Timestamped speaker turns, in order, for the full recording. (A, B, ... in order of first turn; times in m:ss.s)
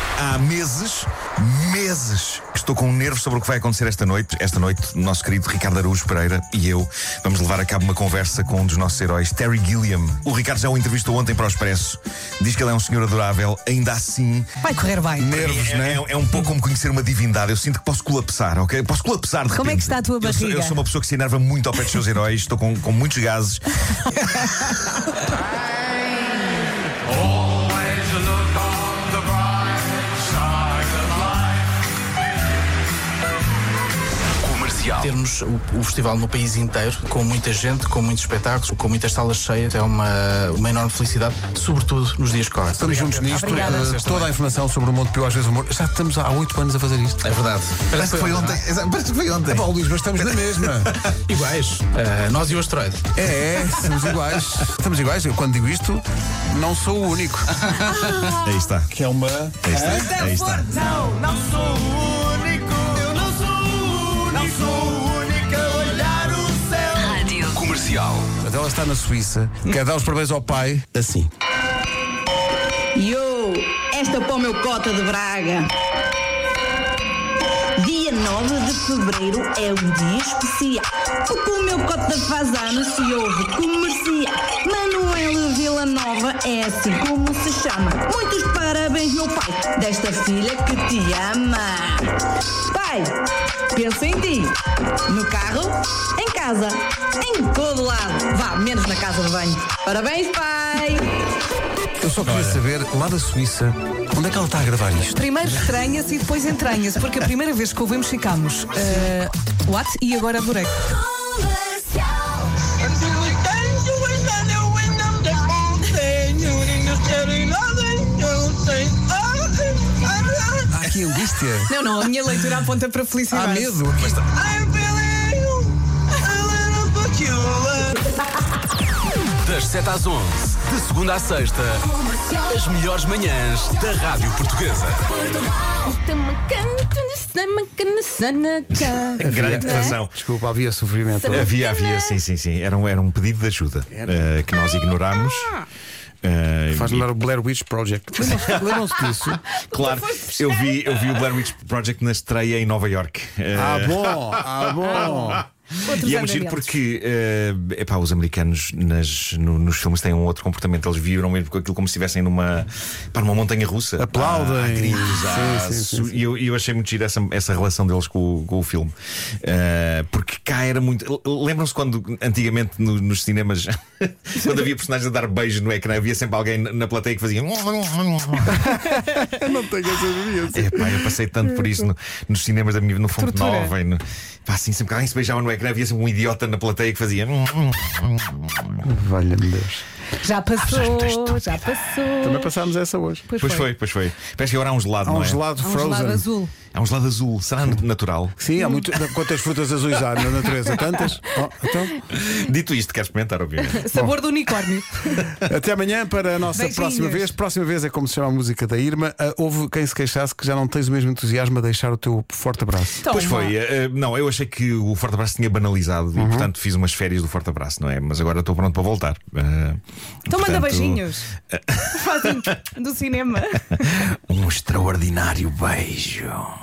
0:00.2-0:14.5 A
0:14.6-0:15.3 B
0:15.2-0:16.0 C
0:15.2-0:24.7 A
0:19.5-0:20.8 B
0:34.4-0:35.1 D
0:35.0-0:44.3 E
0:42.7-0:47.2 C
0:43.3-0:44.1 B
0:47.2-0:48.6 E
0:47.9-0:51.1 A
0:49.5-0:50.9 C
0:51.3-0:53.0 E
0:53.1-0:57.5 C
0:58.4-0:58.9 A
0:58.9-0:59.8 C
0:59.6-1:00.8 A
1:00.2-1:01.1 B
1:02.3-1:03.3 A
1:04.7-1:07.2 A
1:07.2-1:08.3 D
1:08.4-1:11.3 C
1:12.9-1:15.7 F
1:17.8-1:32.1 F
1:32.7-1:41.1 F
1:42.0-1:45.2 C
1:42.2-1:42.5 A
1:45.1-1:50.8 B
1:51.3-1:52.0 F
1:53.4-1:55.3 F
1:56.4-1:57.3 E
1:57.4-2:00.4 F
2:00.7-2:01.7 C
2:01.7-2:03.8 B
2:03.3-2:04.2 C
2:04.4-2:05.6 F
2:06.7-2:07.9 D
2:09.4-2:15.0 D
2:16.4-2:20.0 B
2:18.7-2:20.1 A
2:19.2-2:21.5 C
2:21.3-2:25.6 A
2:26.2-2:27.1 A
2:26.7-2:29.4 C
2:28.3-2:35.4 A
2:29.7-2:30.5 B
2:33.5-2:35.4 C
2:34.8-2:36.7 B
2:35.9-2:58.6 A
2:44.0-2:46.2 C
2:58.5-3:01.1 C
3:00.5-3:08.7 A
3:03.2-3:03.7 B
3:08.8-3:09.8 C
3:10.2-3:12.6 B
3:10.6-3:11.6 A
3:12.2-3:13.2 C
3:13.3-3:13.7 B
3:13.4-3:15.4 A
3:15.0-3:16.2 C
3:15.6-3:16.5 B
3:16.7-3:18.3 A
3:18.4-3:22.0 C
3:22.1-3:23.8 A
3:23.7-3:25.2 B
3:25.4-3:33.0 C
3:26.5-3:27.3 B
3:33.0-3:33.6 B
3:33.0-3:39.8 A
3:36.2-3:36.5 C
3:40.3-3:41.3 B
3:40.3-3:41.1 A
3:41.7-3:42.3 A
3:41.9-3:43.6 B
3:43.8-3:46.5 A